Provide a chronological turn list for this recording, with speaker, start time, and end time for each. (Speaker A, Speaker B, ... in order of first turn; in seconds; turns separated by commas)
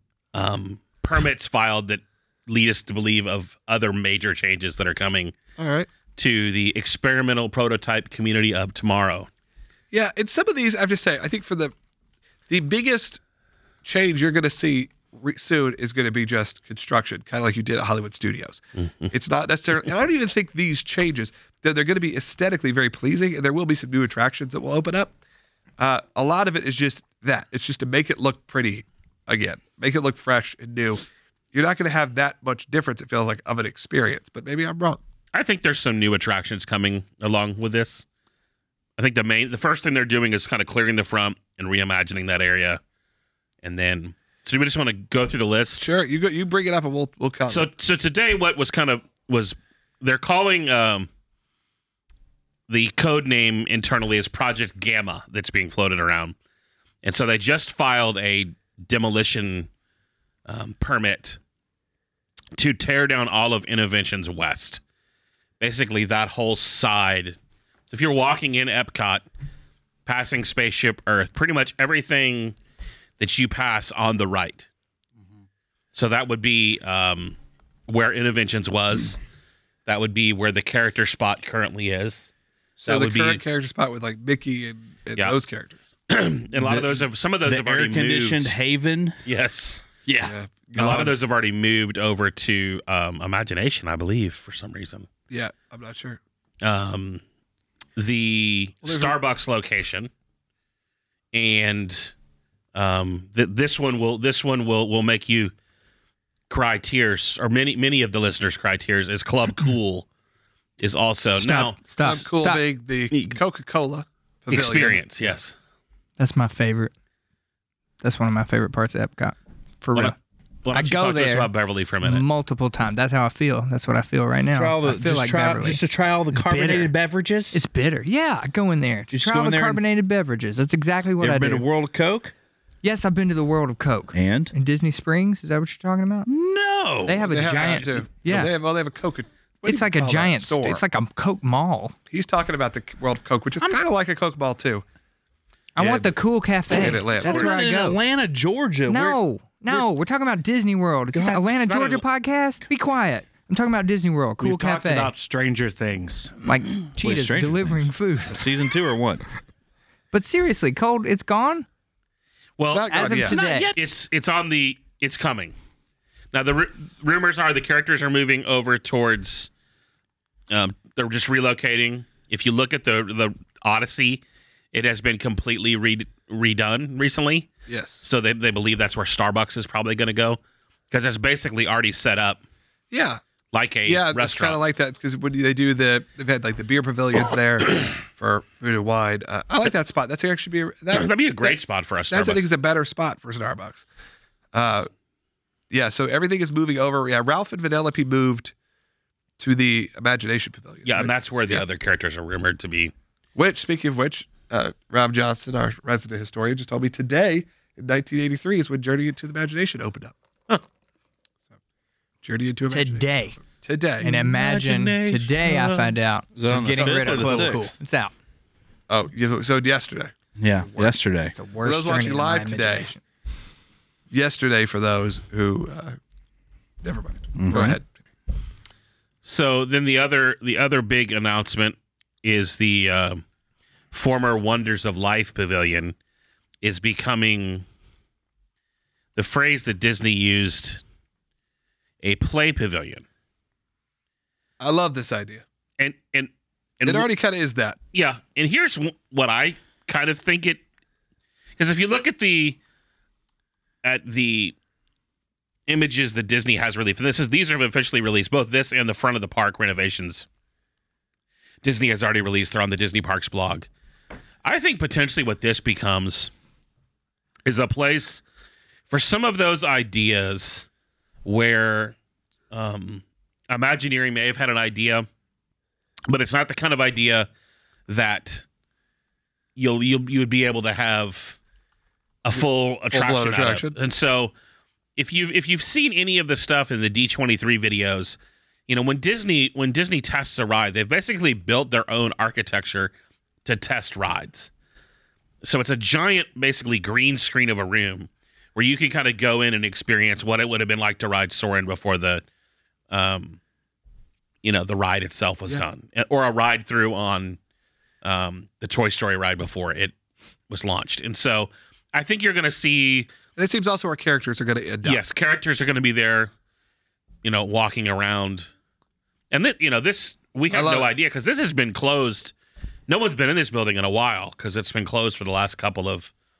Speaker A: 0.3-5.3, Speaker B: 5.6-5.9, Speaker A: 6.2-9.3, Speaker B: 9.9-11.7, Speaker B: 12.5-13.2, Speaker B: 13.8-25.1, Speaker A: 18.8-19.1, Speaker B: 25.8-35.0, Speaker A: 35.3-38.0, Speaker A: 39.0-42.8, Speaker A: 43.6-45.8, Speaker B: 45.8-47.7, Speaker A: 47.5-51.1, Speaker A: 52.7-56.3, Speaker A: 57.0-59.7, Speaker A: 60.5-61.4, Speaker A: 62.5-64.8, Speaker A: 65.6-67.4, Speaker A: 67.9-69.2, Speaker A: 70.0-72.5, Speaker A: 73.2-74.7, Speaker A: 75.9-77.4, Speaker A: 77.9-79.2, Speaker A: 79.8-82.3, Speaker B: 82.8-85.9, Speaker A: 82.8-83.4, Speaker A: 86.1-88.5, Speaker C: 86.6-86.9, Speaker C: 87.4-89.2, Speaker A: 89.2-89.8, Speaker C: 90.0-90.3, Speaker B: 90.2-91.1, Speaker A: 90.7-95.1, Speaker B: 95.3-96.2, Speaker A: 96.6-97.2, Speaker A: 98.0-100.1, Speaker B: 98.8-99.2, Speaker A: 101.3-102.1, Speaker A: 102.7-105.5, Speaker A: 106.5-110.0, Speaker A: 110.8-112.2, Speaker D: 111.3-112.6, Speaker B: 112.0-115.3, Speaker A: 113.1-113.4, Speaker A: 114.5-115.5, Speaker D: 116.2-116.9, Speaker D: 118.0-120.2, Speaker A: 120.6-122.3, Speaker D: 120.7-121.5, Speaker D: 122.0-126.9, Speaker C: 124.5-127.6, Speaker D: 127.5-131.7, Speaker C: 129.1-129.8, Speaker C: 131.2-132.3, Speaker D: 132.8-136.3, Speaker C: 134.1-134.5, Speaker C: 136.3-137.3, Speaker D: 137.1-138.5, Speaker B: 137.3-140.8, Speaker D: 139.6-141.9, Speaker B: 142.1-144.8, Speaker D: 145.8-148.0, Speaker B: 145.8-146.2, Speaker B: 146.7-147.7, Speaker C: 147.2-149.2, Speaker D: 148.9-155.1, Speaker C: 151.1-151.6, Speaker E: 154.4-156.4, Speaker D: 156.4-158.4, Speaker C: 157.0-159.2, Speaker D: 160.1-161.7, Speaker A: 162.6-165.5, Speaker B: 162.6-163.4, Speaker D: 162.9-163.7, Speaker A: 166.3-169.5, Speaker A: 170.5-174.2, Speaker A: 174.7-177.5, Speaker B: 177.7-178.0, Speaker A: 178.0-180.4, Speaker A: 180.9-182.4, Speaker B: 182.9-183.2, Speaker A: 183.5-184.6, Speaker B: 183.8-191.6, Speaker A: 190.9-192.5, Speaker B: 192.1-193.8, Speaker B: 194.5-194.9, Speaker B: 195.7-198.5, Speaker B: 199.4-201.6, Speaker A: 200.8-202.9, Speaker B: 203.3-210.1, Speaker B: 212.2-214.3, Speaker D: 212.7-213.4, Speaker D: 214.0-218.1, Speaker A: 214.4-215.8, Speaker C: 216.3-217.7, Speaker B: 216.8-217.6, Speaker B: 218.9-221.0, Speaker C: 220.4-221.3, Speaker D: 221.3-223.0, Speaker B: 221.6-222.9, Speaker B: 224.1-226.0, Speaker B: 226.8-227.9, Speaker C: 227.3-227.8, Speaker A: 229.2-233.2, Speaker A: 233.9-235.9, Speaker A: 236.6-237.6, Speaker A: 239.1-240.8, Speaker A: 242.0-243.0, Speaker B: 244.6-245.4, Speaker A: 245.8-247.1, Speaker B: 246.8-247.8, Speaker A: 247.9-250.6, Speaker A: 251.6-252.6, Speaker A: 253.8-254.5, Speaker A: 255.7-260.3, Speaker A: 261.6-263.7, Speaker A: 264.4-266.3, Speaker A: 267.4-268.2, Speaker A: 268.9-270.7, Speaker A: 271.2-271.9, Speaker A: 272.5-275.1, Speaker A: 276.1-277.3, Speaker A: 277.9-278.4, Speaker A: 279.6-281.4, Speaker A: 282.2-284.3, Speaker B: 282.3-283.8, Speaker A: 284.9-288.2, Speaker A: 288.7-292.9, Speaker A: 293.4-294.5, Speaker A: 295.4-302.2, Speaker A: 302.9-303.4, Speaker A: 304.4-307.4, Speaker A: 308.0-309.9, Speaker A: 310.5-313.1, Speaker B: 313.4-315.0, Speaker A: 314.8-316.3, Speaker A: 317.2-318.5, Speaker A: 319.3-322.3, Speaker B: 320.5-320.9, Speaker A: 322.9-326.1